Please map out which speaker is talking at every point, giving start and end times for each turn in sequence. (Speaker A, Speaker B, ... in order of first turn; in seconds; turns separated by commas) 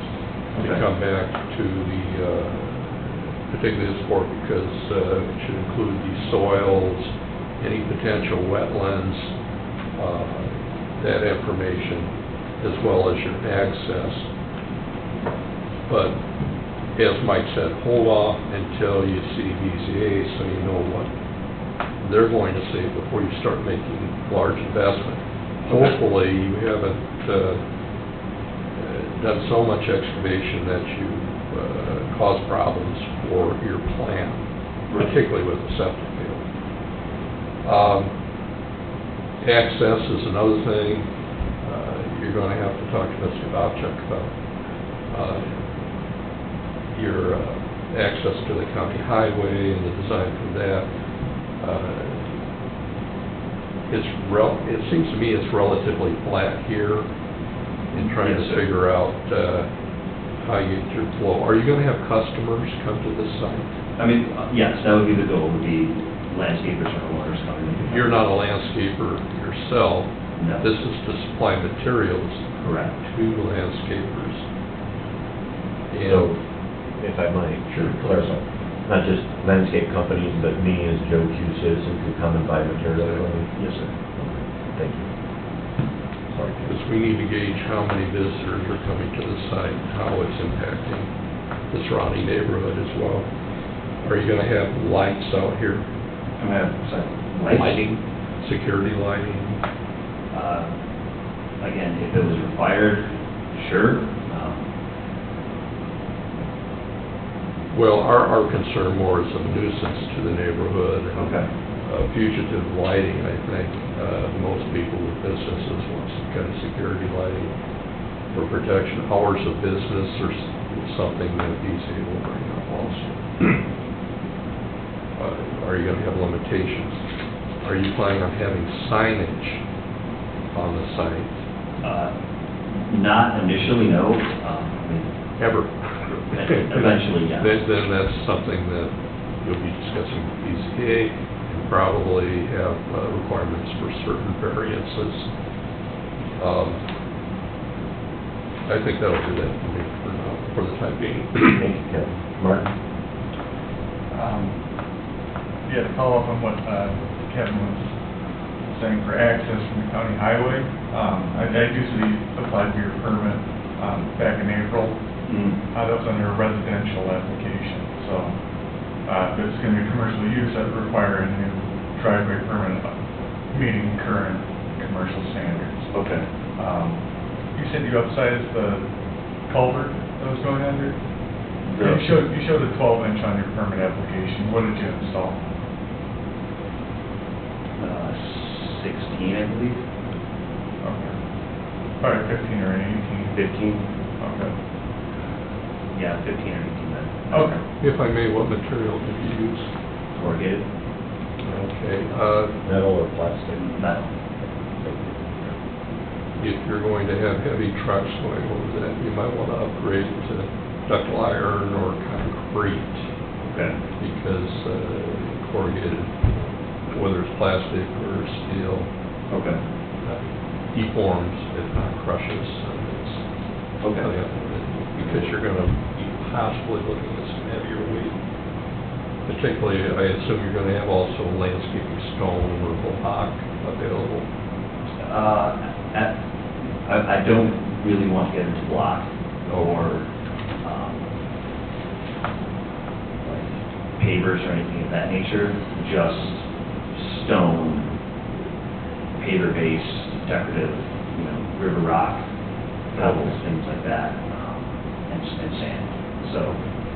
Speaker A: 0.5-9.3, Speaker B: 0.6-0.8, Speaker A: 9.9-14.3, Speaker A: 15.9-16.2, Speaker A: 16.9-21.1, Speaker A: 22.0-27.6, Speaker B: 25.6-26.0, Speaker A: 28.8-36.5, Speaker A: 37.6-38.1, Speaker A: 39.4-44.3, Speaker A: 45.1-45.7, Speaker A: 46.9-50.9, Speaker A: 51.6-52.4, Speaker A: 53.9-57.1, Speaker B: 57.9-58.7, Speaker A: 57.9-59.7, Speaker A: 60.4-63.8, Speaker B: 64.0-68.2, Speaker A: 67.9-74.5, Speaker B: 70.4-70.7, Speaker B: 72.6-73.0, Speaker A: 75.9-76.3, Speaker C: 76.0-76.4, Speaker C: 76.9-83.5, Speaker A: 77.7-78.4, Speaker B: 83.5-83.9, Speaker C: 84.2-85.1, Speaker C: 86.3-86.8, Speaker A: 86.7-91.1, Speaker A: 91.7-93.3, Speaker A: 94.0-95.9, Speaker B: 96.4-97.8, Speaker A: 97.5-99.6, Speaker B: 100.3-100.7, Speaker B: 101.6-104.7, Speaker A: 107.7-117.5, Speaker B: 111.1-111.5, Speaker A: 118.3-123.6, Speaker A: 125.2-127.0, Speaker A: 127.6-129.6, Speaker A: 130.5-131.4, Speaker B: 131.8-132.1, Speaker B: 132.8-135.1, Speaker A: 135.4-145.3, Speaker B: 136.3-137.6, Speaker A: 146.4-146.8, Speaker A: 148.7-151.6, Speaker C: 151.6-152.7, Speaker D: 154.1-154.6, Speaker D: 155.7-157.9, Speaker D: 158.7-165.0, Speaker B: 165.3-165.6, Speaker D: 165.7-168.4, Speaker D: 169.1-172.9, Speaker D: 173.5-175.9, Speaker B: 175.9-176.3, Speaker D: 176.6-177.0, Speaker D: 177.5-178.9, Speaker D: 179.5-181.0, Speaker B: 181.7-182.2, Speaker D: 181.8-185.4, Speaker B: 187.8-189.8, Speaker D: 190.8-191.2, Speaker D: 192.0-193.4, Speaker B: 193.3-193.8, Speaker D: 194.2-194.6, Speaker B: 195.9-197.6, Speaker D: 197.3-197.6, Speaker A: 197.8-199.7, Speaker B: 200.2-200.7, Speaker A: 201.4-202.6, Speaker C: 202.6-203.8, Speaker B: 203.6-204.1, Speaker C: 204.8-205.2, Speaker A: 206.4-213.1, Speaker B: 213.4-213.8, Speaker A: 214.0-216.2, Speaker A: 216.9-218.9, Speaker B: 219.3-219.6, Speaker A: 220.0-223.3, Speaker A: 223.8-228.2, Speaker B: 223.8-224.1, Speaker B: 225.0-225.3, Speaker A: 229.3-234.3, Speaker B: 234.9-236.2, Speaker B: 236.8-240.1, Speaker B: 240.6-241.1, Speaker B: 243.2-248.0, Speaker B: 249.2-252.3, Speaker B: 252.9-256.6